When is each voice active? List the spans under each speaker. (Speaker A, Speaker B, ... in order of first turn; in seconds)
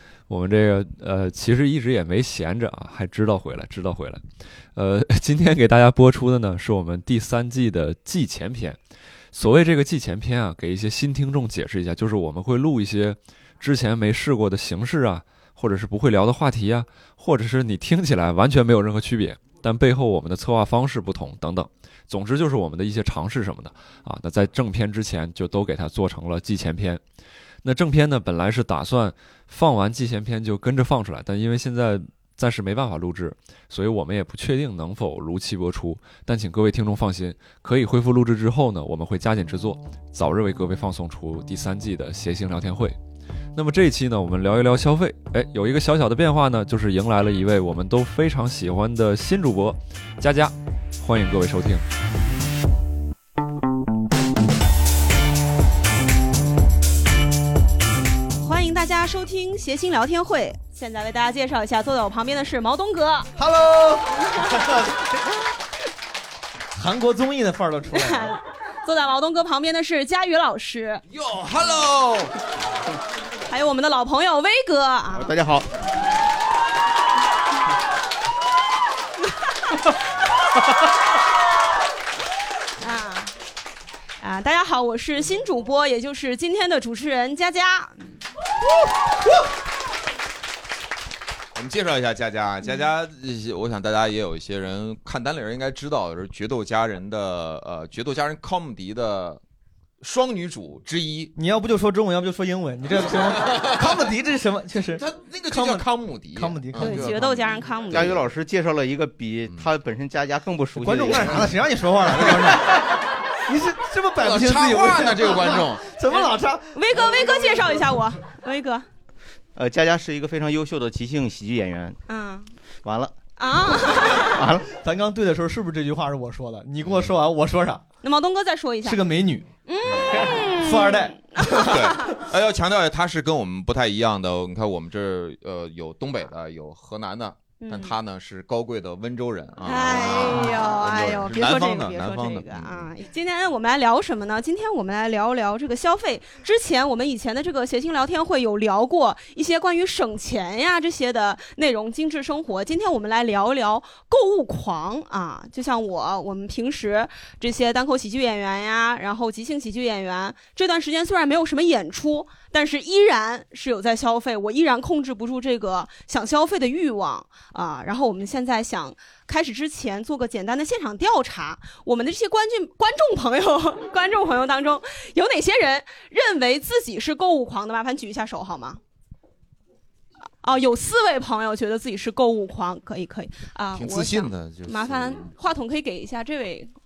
Speaker A: 0.3-4.2, 4.7-8.8, 9.3-27.0, 27.6-43.0, 43.5-51.8
Speaker B: 58.4-63.3, 67.9-71.0, 73.5-75.3, 82.8-83.3, 84.2-88.0, 106.8-108.2, 116.1-118.8, 122.1-122.5, 123.4-124.4, 128.0-129.0, 129.7-132.1, 137.6-138.0, 139.6-178.8, 180.4-186.7
Speaker C: 63.4-64.0, 66.8-68.3, 101.3-107.1, 110.8-112.8, 113.5-117.8, 124.7-127.8, 128.8-129.5, 130.2-131.6
Speaker D: 71.1-72.3, 91.5-99.4, 100.0-101.3, 103.5-103.8, 104.9-108.2, 114.2-115.8, 131.6-142.9, 183.8-185.3
Speaker E: 75.2-75.7, 107.9-111.5, 119.6-122.0, 122.8-123.2, 124.1-124.7